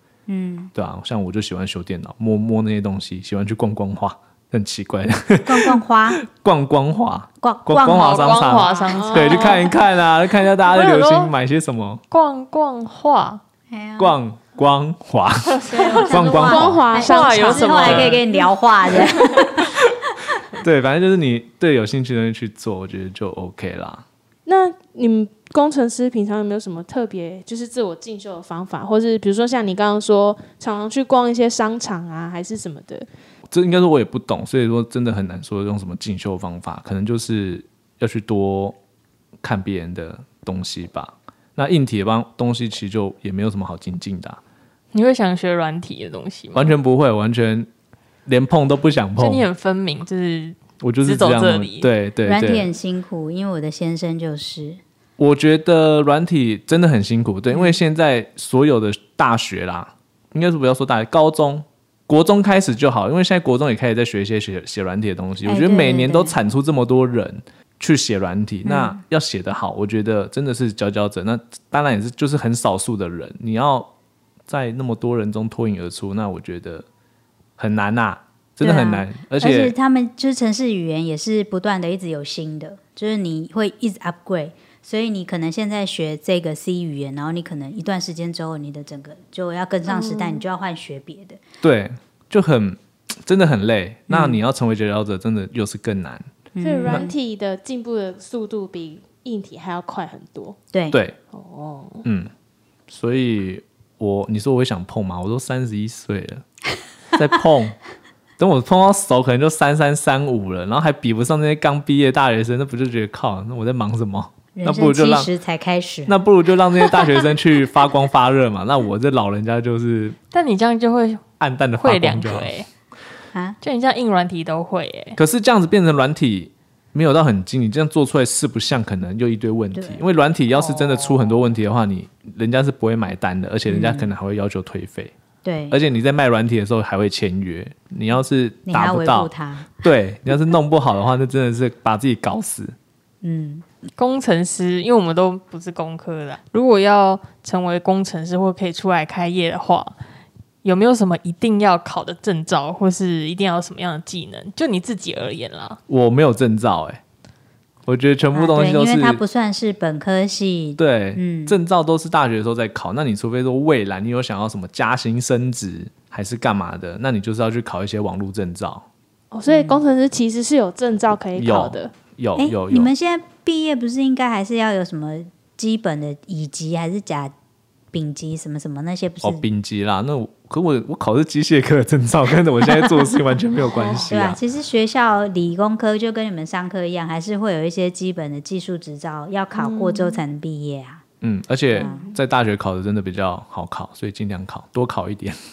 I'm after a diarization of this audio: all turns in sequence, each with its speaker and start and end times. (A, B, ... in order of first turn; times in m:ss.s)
0:00.3-0:00.7 A
0:00.7-0:12.0 B
0:05.4-0:06.2 A
0:07.4-0:08.6 A
0:07.9-0:09.8 C
0:08.6-0:09.6 D
0:10.6-0:11.3 C
0:12.1-0:13.4 C
0:13.7-0:14.2 A
0:14.0-0:16.8 B
0:15.6-0:18.2 C
0:15.7-0:19.8 A
0:15.7-0:19.3 D
0:20.5-0:24.0 B
0:24.4-0:33.1 D
0:33.5-0:38.8 B
0:39.4-0:44.4 B
0:44.9-0:46.7 C
0:46.5-0:47.7 B
0:48.2-0:49.4 B
0:49.2-0:51.9 C
0:50.8-0:52.7 B
0:52.2-0:54.8 A
0:55.2-1:13.9 B
1:05.4-1:06.3 A
1:08.6-1:09.0 A
1:14.5-1:16.8 B
1:17.6-1:19.7 B
1:18.6-1:31.4 A
1:29.9-1:30.4 D
1:31.6-1:36.3 B
1:34.1-1:34.4 A
1:36.5-1:37.1 A
1:36.6-1:40.6 D
1:40.7-1:41.0 A
1:41.3-1:42.0 D
1:42.0-1:42.3 B
1:42.9-1:46.4 B
1:47.1-1:47.8 B
1:48.4-1:55.3 B
1:54.5-1:56.1 A
1:56.1-2:00.2 B
2:00.3-2:02.7 C
2:01.4-2:02.5 B
2:03.6-2:05.2 C
2:05.2-2:15.1 B
2:09.7-2:10.0 A
2:10.8-2:11.2 C
2:13.7-2:14.1 A
2:15.4-2:15.8 A
2:15.7-2:22.7 B
2:18.6-2:19.7 A
2:23.2-2:23.6 A
2:24.0-2:30.0 C
2:30.6-2:35.8 C
2:35.9-2:37.0 B
2:37.8-2:39.2 B
2:38.3-2:41.6 A
2:40.8-2:48.8 B
2:49.3-2:51.9 D
2:49.5-2:49.8 A
2:51.3-2:52.9 B
2:52.4-2:57.3 A
2:57.9-2:59.4 A
2:59.2-3:04.4 B
3:03.6-3:04.1 D
3:04.1-3:11.0 A
3:09.5-3:10.2 D
3:11.2-3:15.4 B
3:11.7-3:12.1 A
3:11.7-3:12.1 D